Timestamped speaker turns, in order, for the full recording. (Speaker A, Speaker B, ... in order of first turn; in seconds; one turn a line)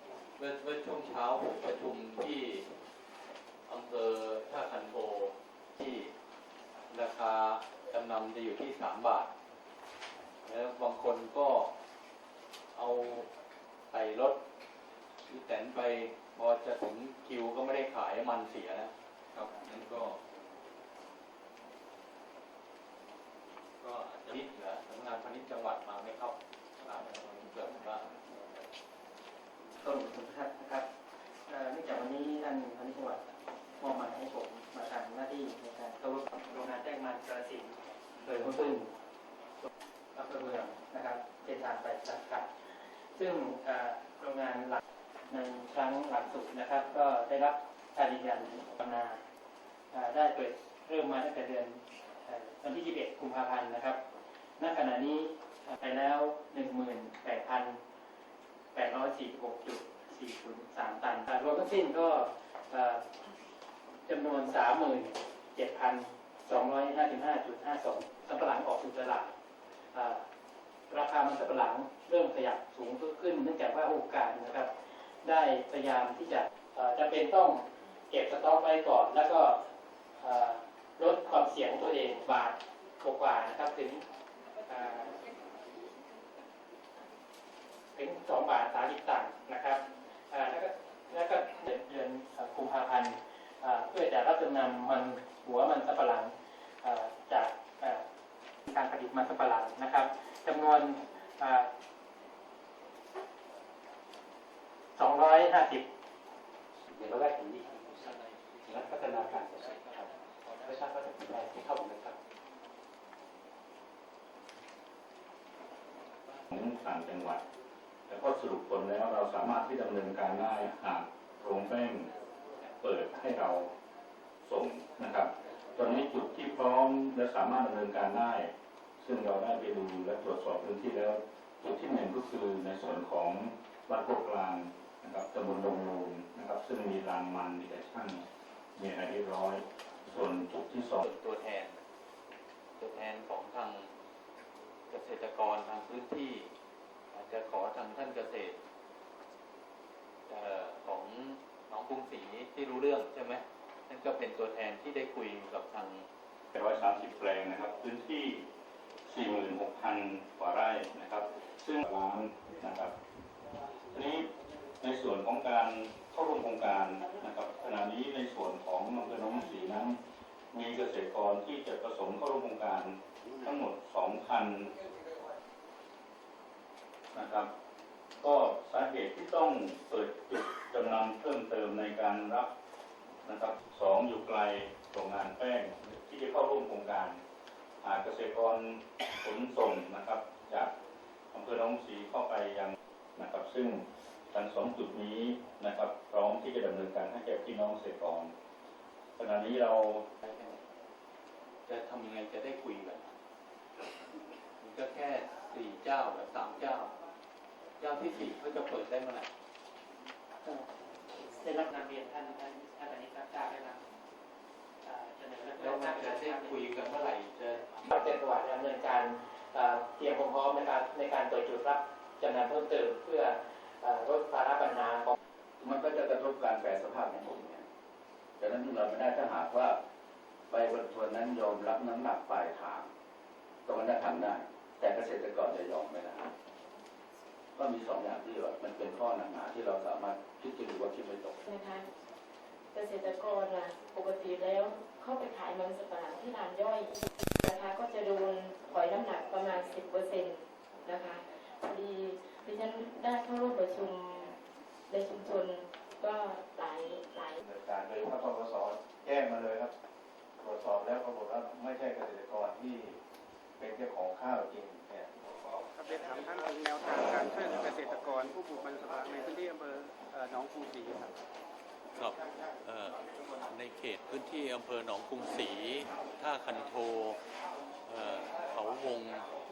Speaker A: 0.4-2.7
Speaker A: 3.7-6.1
Speaker A: 6.9-9.3
Speaker A: 10.4-11.7
Speaker A: 12.7-13.3
Speaker A: 13.9-14.4
Speaker A: 15.3-20.2
Speaker A: 23.8-28.1
Speaker B: 29.8-30.9
Speaker B: 31.5-33.2
Speaker B: 33.8-38.9
Speaker B: 40.1-49.2
Speaker B: 49.9-54.0
Speaker B: 54.6-57.8
Speaker B: 58.7-63.0
Speaker B: 64.1-69.3
Speaker B: 69.9-70.2
Speaker B: 70.9-74.7
Speaker B: 75.2-79.6
Speaker B: 80.2-84.0
Speaker B: 84.7-85.2
Speaker B: 87.9-98.0
Speaker B: 98.7-101.7
Speaker B: 104.9-105.8
Speaker C: 106.9-108.1
Speaker C: 108.7-110.1
Speaker C: 110.6-112.2
Speaker D: 116.5-117.4
Speaker D: 118.1-122.1
Speaker D: 122.8-123.7
Speaker D: 124.4-138.2
Speaker D: 138.8-141.0
Speaker A: 141.0-141.8
Speaker A: 142.8-143.9
Speaker A: 144.9-146.5
Speaker A: 147.1-148.6
Speaker A: 150.3-156.1
Speaker D: 156.5-158.4
Speaker D: 159.1-162.9
Speaker D: 163.9-170.0
Speaker D: 170.5-174.7
Speaker D: 177.1-177.5
Speaker D: 178.2-182.5
Speaker D: 183.2-187.2
Speaker D: 187.8-190.7
Speaker D: 191.3-198.3
Speaker D: 199.2-200.1
Speaker A: 200.2-200.6
Speaker A: 201.7-203.1
Speaker A: 204.6-206.9
Speaker A: 207.8-209.3
Speaker B: 211.3-213.8
Speaker B: 214.8-216.6
Speaker A: 215.6-218.0
Speaker B: 217.9-225.1
Speaker E: 225.6-227.7
Speaker E: 228.4-229.8
Speaker E: 230.5-232.9
Speaker E: 233.7-236.3
Speaker E: 237.6-241.4
Speaker F: 241.5-241.8
Speaker F: 242.7-254.3
Speaker F: 254.9-257.4
Speaker G: 257.4-259.7
Speaker G: 260.4-263.0
Speaker G: 263.6-265.1
Speaker H: 265.7-271.2
Speaker A: 271.9-277.2
Speaker A: 277.9-279.3